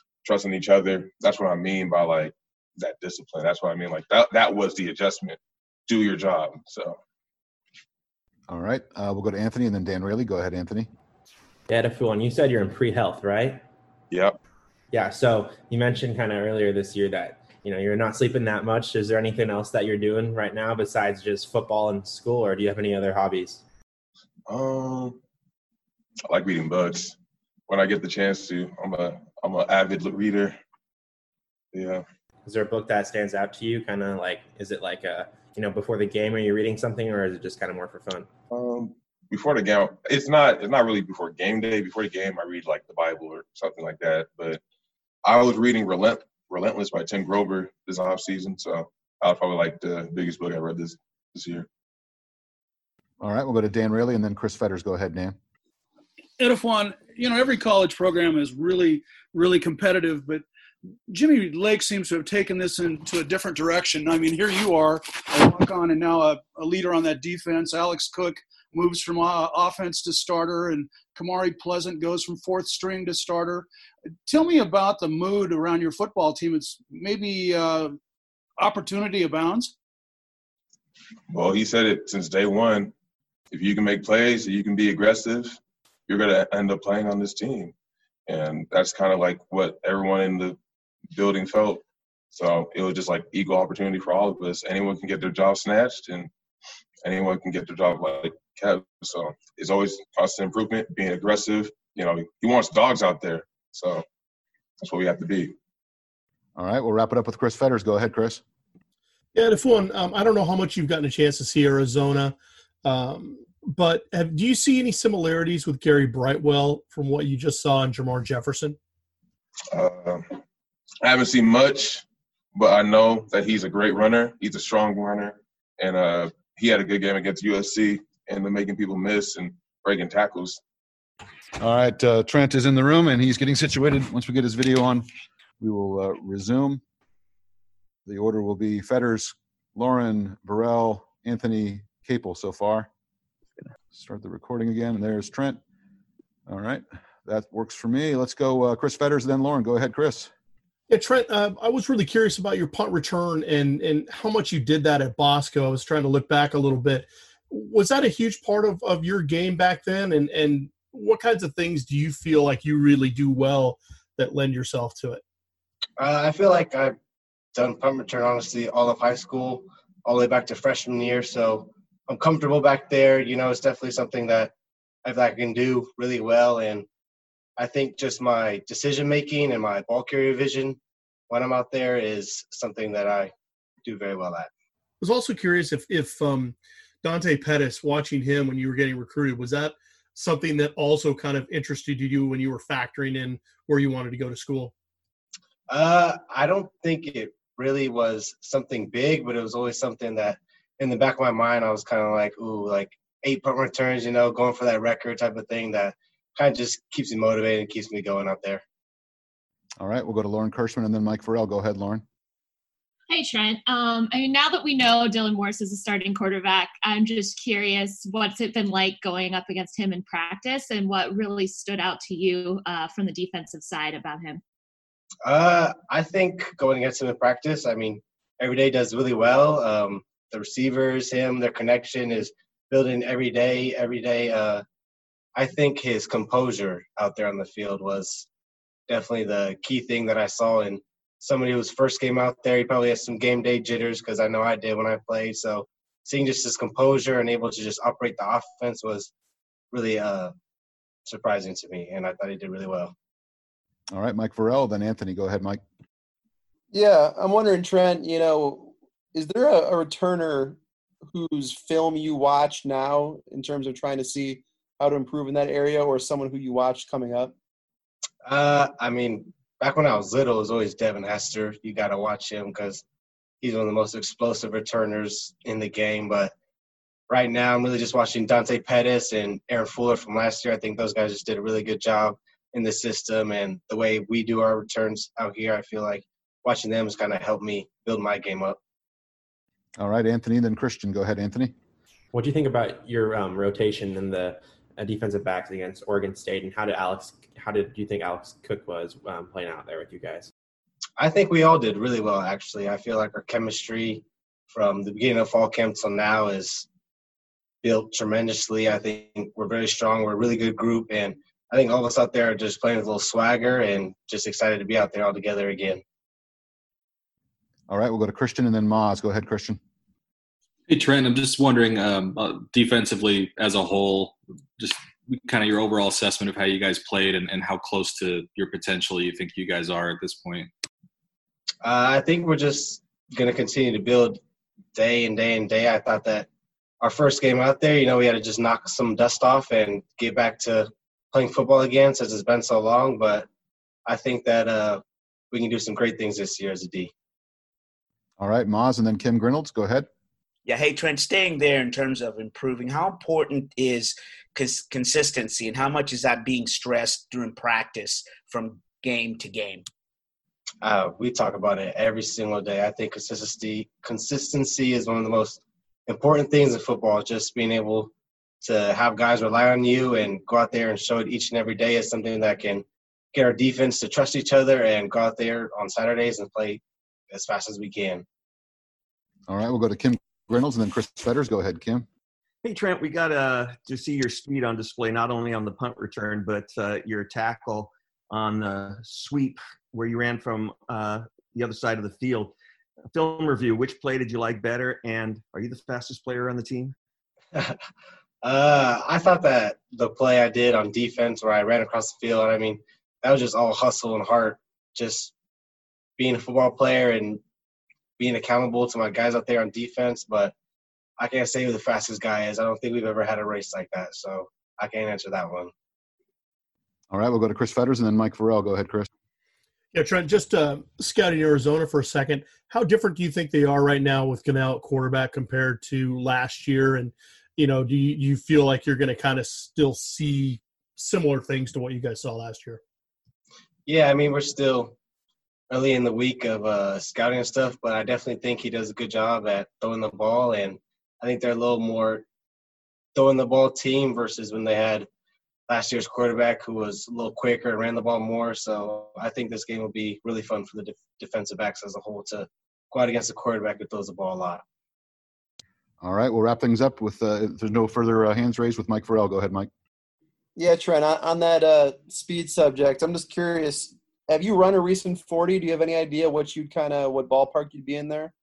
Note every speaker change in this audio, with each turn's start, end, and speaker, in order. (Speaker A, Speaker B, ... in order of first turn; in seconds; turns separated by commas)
Speaker A: 0.2-7.0, Speaker B: 8.5-10.9, Speaker C: 11.7-13.6, Speaker A: 14.1-14.4, Speaker C: 14.9-23.6, Speaker A: 24.5-25.2, Speaker A: 26.3-27.2, Speaker A: 27.7-30.6, Speaker A: 31.7-32.0, Speaker C: 32.5-38.3, Speaker A: 38.5-44.6, Speaker A: 45.2-51.7, Speaker B: 53.2-55.4, Speaker D: 56.4-60.5, Speaker D: 61.1-73.7, Speaker D: 74.3-77.9, Speaker D: 78.6-79.7, Speaker A: 81.3-82.9, Speaker A: 83.5-87.7, Speaker A: 88.3-90.6, Speaker A: 91.1-91.8, Speaker A: 92.3-96.3, Speaker A: 97.0-104.0, Speaker A: 104.8-105.5, Speaker B: 106.6-108.4, Speaker E: 109.3-118.8, Speaker A: 119.7-120.2, Speaker A: 121.0-122.0, Speaker A: 122.5-130.6, Speaker B: 131.6-135.1, Speaker B: 135.6-136.8, Speaker B: 138.1-142.9, Speaker B: 143.9-145.6, Speaker B: 146.5-150.3, Speaker E: 150.9-165.2, Speaker F: 166.0-166.9, Speaker F: 167.6-174.5, Speaker F: 175.0-176.9, Speaker F: 177.6-180.8, Speaker F: 181.3-183.3, Speaker F: 183.8-184.5, Speaker E: 185.0-194.7, Speaker F: 195.7-208.6, Speaker B: 209.8-212.0, Speaker G: 213.1-224.4, Speaker F: 225.2-234.6, Speaker F: 235.3-238.3, Speaker F: 238.9-249.1, Speaker F: 249.7-250.3, Speaker F: 251.1-252.9, Speaker B: 253.9-255.6, Speaker H: 256.7-260.6, Speaker H: 261.1-267.3, Speaker F: 268.2-272.8, Speaker F: 273.4-276.3, Speaker F: 277.1-288.6, Speaker B: 289.8-291.5, Speaker C: 292.1-300.3, Speaker F: 301.0-306.7, Speaker F: 307.6-315.8, Speaker B: 317.7-319.6, Speaker I: 320.7-330.5, Speaker F: 331.6-334.2, Speaker F: 334.8-336.3, Speaker F: 336.8-343.3, Speaker F: 343.9-346.9, Speaker B: 348.2-349.9, Speaker J: 350.5-359.6, Speaker F: 360.6-367.9, Speaker F: 368.4-378.0, Speaker B: 379.3-381.9, Speaker K: 382.4-392.4, Speaker K: 392.9-396.8, Speaker F: 398.2-405.1, Speaker F: 406.0-407.2, Speaker F: 408.0-410.3, Speaker F: 411.0-415.5, Speaker B: 416.9-418.9, Speaker E: 419.7-432.6, Speaker F: 433.7-434.8, Speaker F: 435.5-442.1, Speaker F: 442.9-444.9, Speaker F: 445.5-454.4, Speaker B: 455.8-459.5, Speaker H: 460.4-468.1